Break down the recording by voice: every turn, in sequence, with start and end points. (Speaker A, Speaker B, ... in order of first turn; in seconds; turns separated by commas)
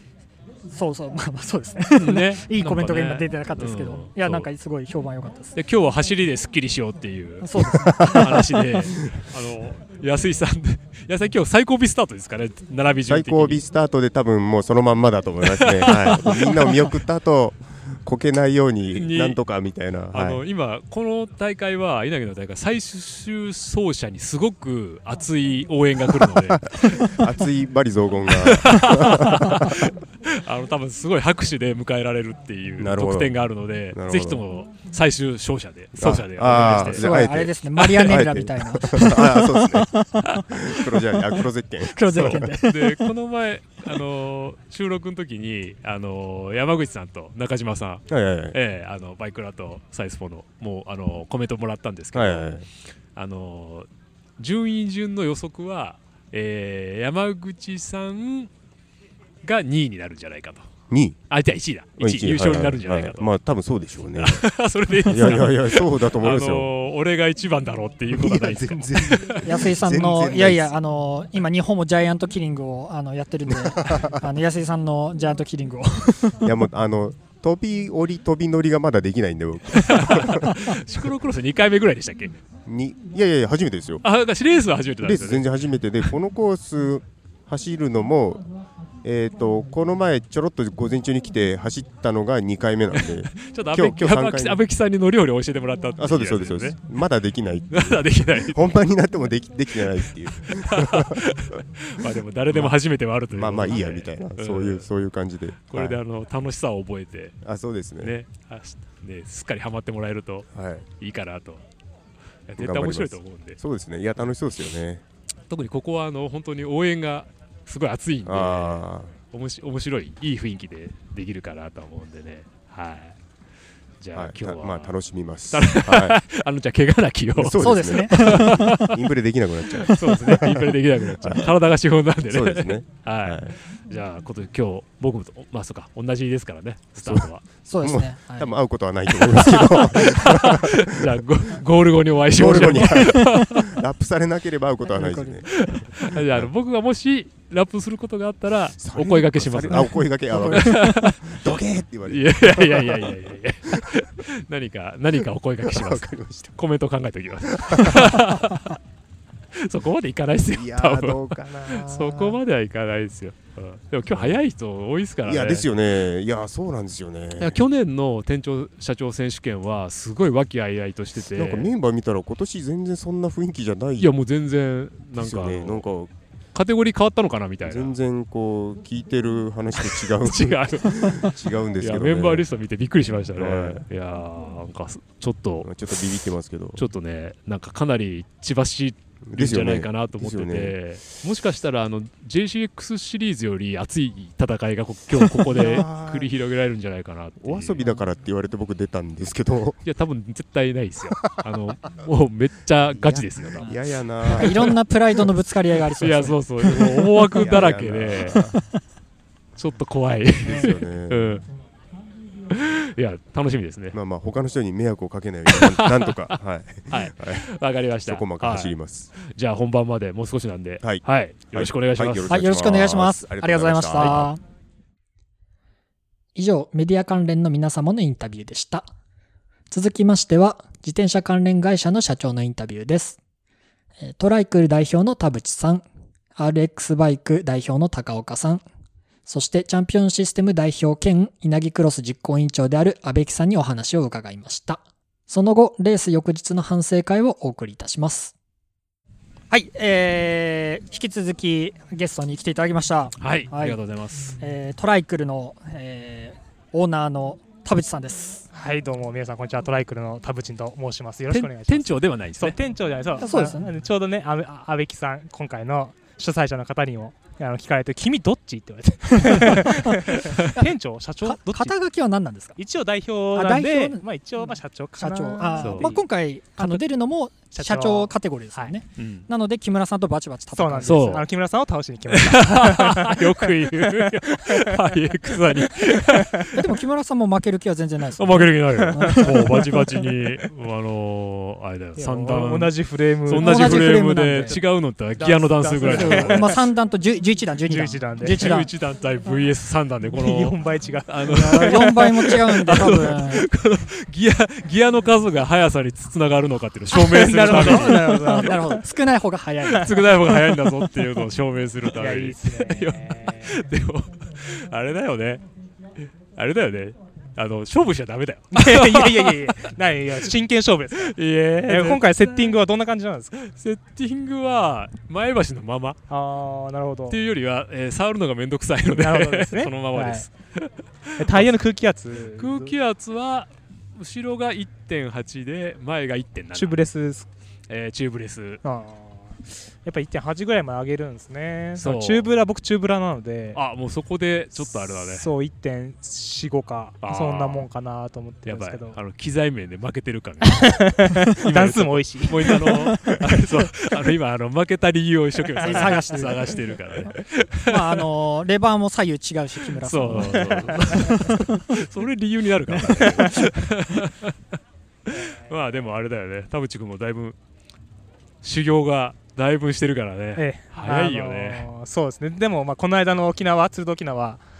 Speaker A: 0.7-5.5, Speaker B: 1.9-4.5, Speaker B: 5.5-13.6, Speaker A: 7.4-8.2, Speaker C: 13.1-20.4, Speaker B: 15.5-16.8, Speaker B: 18.9-19.4, Speaker B: 20.1-27.2, Speaker C: 26.2-29.9, Speaker B: 28.3-37.0, Speaker C: 32.8-33.4, Speaker C: 33.9-34.4, Speaker C: 36.0-42.5, Speaker A: 36.7-40.4, Speaker A: 41.9-43.1, Speaker B: 42.1-53.9, Speaker C: 48.1-48.6, Speaker C: 52.1-52.6, Speaker B: 54.4-58.5, Speaker B: 59.4-60.7, Speaker C: 60.9-61.2, Speaker B: 61.3-63.3, Speaker C: 62.0-64.4, Speaker B: 64.1-69.4, Speaker C: 65.0-66.7, Speaker C: 68.1-70.7, Speaker A: 69.4-76.4, Speaker C: 73.5-74.2, Speaker C: 76.4-80.5, Speaker B: 79.8-82.3, Speaker C: 82.7-84.0, Speaker B: 84.0-85.5, Speaker C: 85.0-88.4, Speaker C: 89.0-94.6, Speaker B: 93.4-96.8, Speaker C: 96.0-101.2, Speaker B: 97.7-98.8, Speaker B: 100.6-104.9, Speaker C: 102.5-102.8, Speaker C: 103.3-106.0, Speaker B: 105.7-107.4, Speaker C: 107.4-108.1, Speaker B: 108.0-110.5, Speaker C: 110.5-110.8, Speaker B: 111.0-111.6, Speaker B: 112.5-113.6, Speaker C: 112.6-115.0, Speaker B: 115.5-123.2, Speaker C: 118.2-119.1, Speaker B: 124.0-124.9, Speaker C: 124.1-126.2, Speaker B: 125.5-129.0, Speaker C: 127.3-131.5, Speaker A: 127.6-128.8, Speaker B: 129.8-137.4, Speaker C: 132.3-133.5, Speaker C: 137.0-137.3, Speaker A: 137.7-138.5, Speaker C: 137.8-141.1, Speaker B: 139.3-143.7, Speaker C: 142.3-146.5, Speaker A: 144.9-145.4, Speaker B: 145.5-151.5, Speaker C: 148.8-153.1, Speaker A: 150.3-150.7, Speaker B: 152.1-158.8, Speaker C: 155.7-156.5, Speaker C: 157.5-158.1, Speaker B: 159.6-165.6, Speaker C: 160.5-162.4, Speaker C: 164.1-164.4, Speaker C: 165.2-167.6, Speaker B: 167.4-171.7, Speaker C: 171.2-174.1, Speaker B: 174.0-175.8, Speaker C: 175.2-176.1, Speaker B: 176.5-177.9, Speaker C: 177.6-182.4, Speaker B: 179.8-185.7, Speaker C: 183.3-183.8, Speaker C: 185.6-186.8, Speaker B: 186.8-197.8, Speaker C: 189.3-190.8, Speaker C: 195.2-196.3, Speaker C: 197.4-199.8, Speaker B: 199.8-203.7, Speaker C: 202.9-204.8, Speaker B: 204.2-204.5, Speaker A: 204.3-206.8, Speaker B: 206.0-208.4, Speaker C: 207.3-208.6, Speaker B: 209.6-211.4, Speaker C: 210.4-211.4, Speaker B: 212.5-213.9, Speaker C: 213.9-217.5, Speaker B: 215.5-216.4, Speaker B: 216.9-222.3, Speaker C: 218.0-219.1, Speaker C: 220.8-224.3, Speaker A: 222.3-224.4, Speaker A: 226.3-228.9, Speaker A: 229.7-233.2, Speaker A: 234.0-235.8, Speaker A: 236.3-238.6, Speaker A: 239.2-248.3, Speaker A: 249.5-253.8, Speaker B: 253.2-254.4, Speaker A: 254.4-258.4, Speaker D: 258.5-271.7, Speaker B: 261.3-262.6, Speaker A: 263.2-263.6, Speaker A: 269.2-269.9, Speaker A: 271.2-272.6, Speaker D: 272.6-276.0, Speaker A: 273.3-274.0, Speaker A: 275.0-281.2, Speaker B: 275.6-275.8, Speaker D: 276.6-276.8, Speaker D: 277.5-278.7, Speaker B: 279.0-279.2, Speaker D: 280.5-284.9, Speaker B: 280.8-281.3, Speaker B: 282.1-286.6, Speaker D: 285.5-286.5, Speaker A: 286.5-289.7, Speaker B: 288.2-296.6, Speaker D: 288.8-289.7, Speaker D: 291.9-296.6, Speaker A: 293.4-294.6, Speaker A: 295.9-298.7, Speaker D: 297.6-298.6, Speaker B: 298.3-308.4, Speaker D: 300.1-301.9, Speaker A: 301.3-303.4, Speaker D: 306.9-308.8, Speaker A: 307.4-309.9, Speaker B: 309.7-315.4, Speaker D: 311.9-313.6, Speaker B: 316.3-319.6, Speaker D: 318.5-323.4, Speaker B: 320.9-322.6, Speaker B: 323.4-326.0, Speaker D: 326.1-327.2, Speaker B: 327.1-331.5, Speaker D: 328.9-330.3, Speaker D: 331.2-332.7, Speaker B: 332.4-336.8, Speaker D: 336.5-337.3, Speaker B: 337.7-338.6, Speaker D: 338.6-343.6, Speaker B: 341.8-342.3, Speaker B: 343.5-345.3, Speaker D: 344.6-349.0, Speaker B: 347.0-347.6, Speaker B: 348.4-358.1, Speaker D: 350.4-353.4, Speaker D: 355.5-356.2, Speaker A: 355.6-356.6, Speaker A: 357.7-361.6, Speaker B: 359.8-364.4, Speaker D: 360.2-361.0, Speaker D: 362.8-363.4, Speaker B: 365.1-367.4, Speaker D: 365.1-365.8, Speaker B: 368.4-371.7, Speaker D: 370.4-374.4